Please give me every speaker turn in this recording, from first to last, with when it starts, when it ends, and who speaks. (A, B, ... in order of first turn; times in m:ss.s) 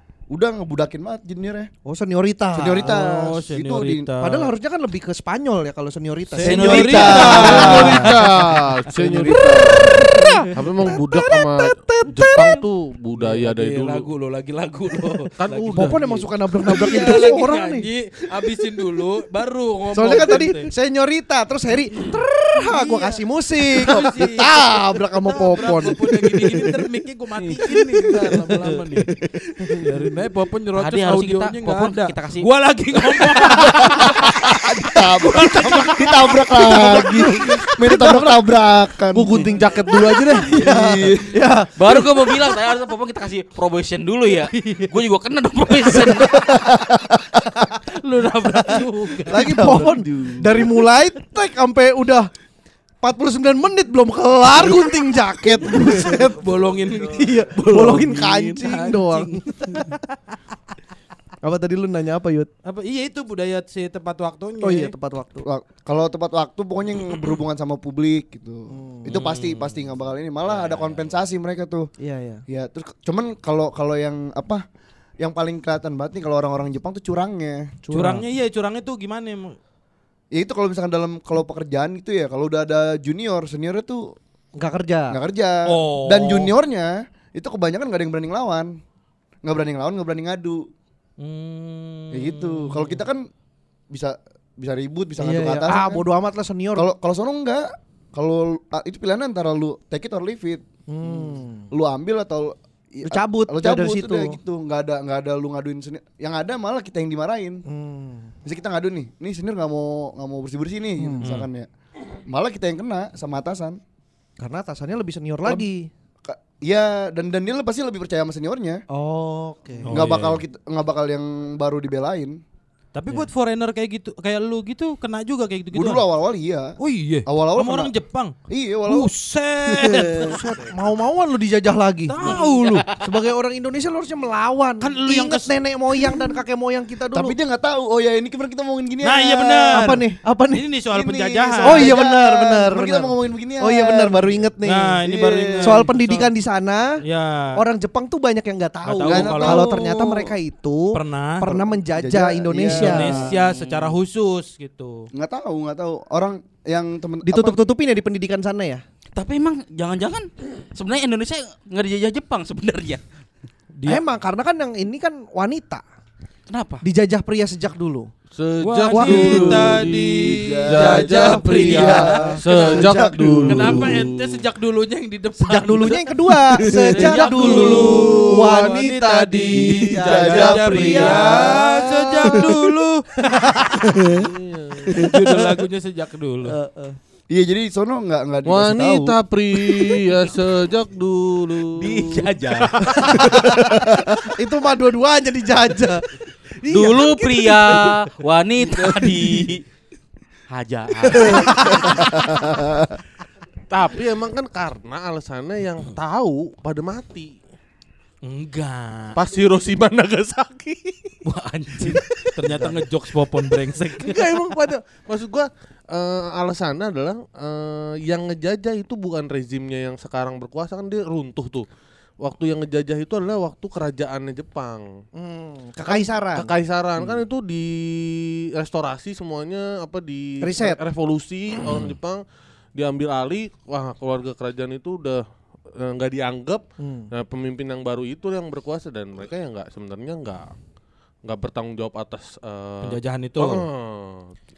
0:00.3-0:01.7 A
0:01.8-0:03.0 B
0:02.5-0:04.1 A
0:02.8-0:04.5 C
0:04.2-0:08.2 B
0:06.3-0:08.6 C
0:06.4-0:08.1 A
0:07.1-0:14.1 D
0:09.0-0:10.0 A
0:09.3-0:12.6 B
0:13.2-0:20.7 C
0:15.4-0:16.2 D
0:15.7-0:17.9 B
0:19.9-0:26.8 B
0:22.6-0:29.1 C
0:27.4-0:30.0 B
0:27.9-0:28.4 A
0:29.8-0:38.2 C
0:30.7-0:32.5 E
0:33.0-0:33.6 E
0:33.6-0:39.5 A
0:35.4-0:38.2 B
0:39.1-0:40.6 D
0:40.5-0:41.4 A
0:40.5-0:42.6 B
0:41.7-0:46.4 E
0:44.5-0:44.9 C
0:45.9-0:47.6 A
0:47.9-0:50.0 C
0:48.5-0:52.3 B
0:49.3-0:50.7 A
0:53.0-0:56.4 B
0:54.5-0:54.8 A
0:55.5-0:58.2 A
0:56.0-1:00.0 C
0:57.1-1:00.0 B
1:01.4-1:02.5 B
1:02.6-1:04.9 C
1:04.6-1:05.5 B
1:05.4-1:11.9 A
1:08.7-1:09.2 B
1:09.1-1:09.9 C
1:10.5-1:11.0 D
1:12.0-1:12.4 B
1:12.5-1:14.6 A
1:15.2-1:17.7 A
1:17.8-1:18.2 B
1:17.9-1:19.6 C
1:20.3-1:24.1 A
1:24.6-1:25.2 B
1:25.1-1:28.7 A
1:25.6-1:26.5 C
1:29.4-1:30.7 A
1:31.2-1:33.0 C
1:32.1-1:33.3 A
1:33.9-1:36.0 A
1:35.2-1:36.9 B
1:36.7-1:47.6 A
1:40.9-1:41.7 B
1:43.0-1:44.4 B
1:47.7-1:48.3 B
1:48.4-1:51.7 A
1:51.0-1:51.3 B
1:52.3-1:53.8 A
1:54.4-1:55.9 B
1:56.2-1:58.8 A
1:58.9-2:00.0 B
1:59.8-2:00.4 C
1:59.9-2:02.4 A
2:02.9-2:06.0 C
2:05.7-2:06.7 A
2:06.8-2:08.3 C
2:07.2-2:07.9 A
2:08.5-2:09.1 A
2:08.9-2:10.4 C
2:09.6-2:10.4 A
2:10.2-2:12.4 B
2:12.1-2:12.9 C
2:12.2-2:13.2 E
2:13.0-2:17.4 B
2:14.8-2:15.6 C
2:17.1-2:19.9 A
2:19.0-2:21.9 C
2:19.7-2:20.7 B
2:20.9-2:24.5 A
2:21.6-2:25.0 B
2:24.6-2:26.3 C
2:25.0-2:25.9 A
2:25.6-2:27.0 B
2:27.0-2:27.6 C
2:27.5-2:33.2 B
2:28.8-2:29.7 C
2:29.0-2:30.3 A
2:30.9-2:31.6 C
2:31.7-2:33.3 A
2:32.7-2:35.1 C
2:33.2-2:33.9 E
2:35.1-2:37.6 A
2:37.2-2:38.8 B
2:39.2-2:43.0 E
2:43.8-2:44.0 C
2:43.8-2:45.8 B
2:46.5-2:46.8 E
2:46.8-2:48.1 B
2:48.3-2:54.4 D
2:48.6-2:52.4 C
2:48.9-2:49.7 B
2:50.4-2:53.9 A
2:51.0-2:53.8 B
2:53.4-2:56.1 C
2:55.4-3:01.7 B
2:56.5-2:58.3 A
2:56.9-3:03.0 C
2:57.3-2:58.7 D
2:59.9-3:01.6 A
3:00.0-3:01.0 D
3:03.3-3:03.7 B
3:03.8-3:04.3 A
3:04.0-3:05.1 D
3:04.9-3:05.2 A
3:05.0-3:06.6 C
3:06.4-3:07.0 B
3:07.3-3:09.8 A
3:08.4-3:13.2 D
3:11.9-3:12.7 C
3:12.0-3:12.7 E
3:12.8-3:16.0 B
3:13.2-3:14.3 A
3:16.6-3:18.1 B
3:16.7-3:19.6 E
3:18.6-3:19.5 B
3:20.5-3:22.0 E
3:21.1-3:21.9 B
3:21.3-3:23.0 A
3:23.7-3:27.4 D
3:28.2-3:29.2 C
3:29.1-3:31.2 D
3:31.2-3:34.2 C
3:34.0-3:41.6 D
3:42.2-3:44.8 D
3:45.2-3:47.2 B
3:45.8-3:52.2 D
3:50.4-3:50.8 B
3:52.7-3:55.2 D
3:55.7-4:00.5 D
3:56.8-3:57.1 B
4:01.2-4:04.3 D
4:02.8-4:03.6 C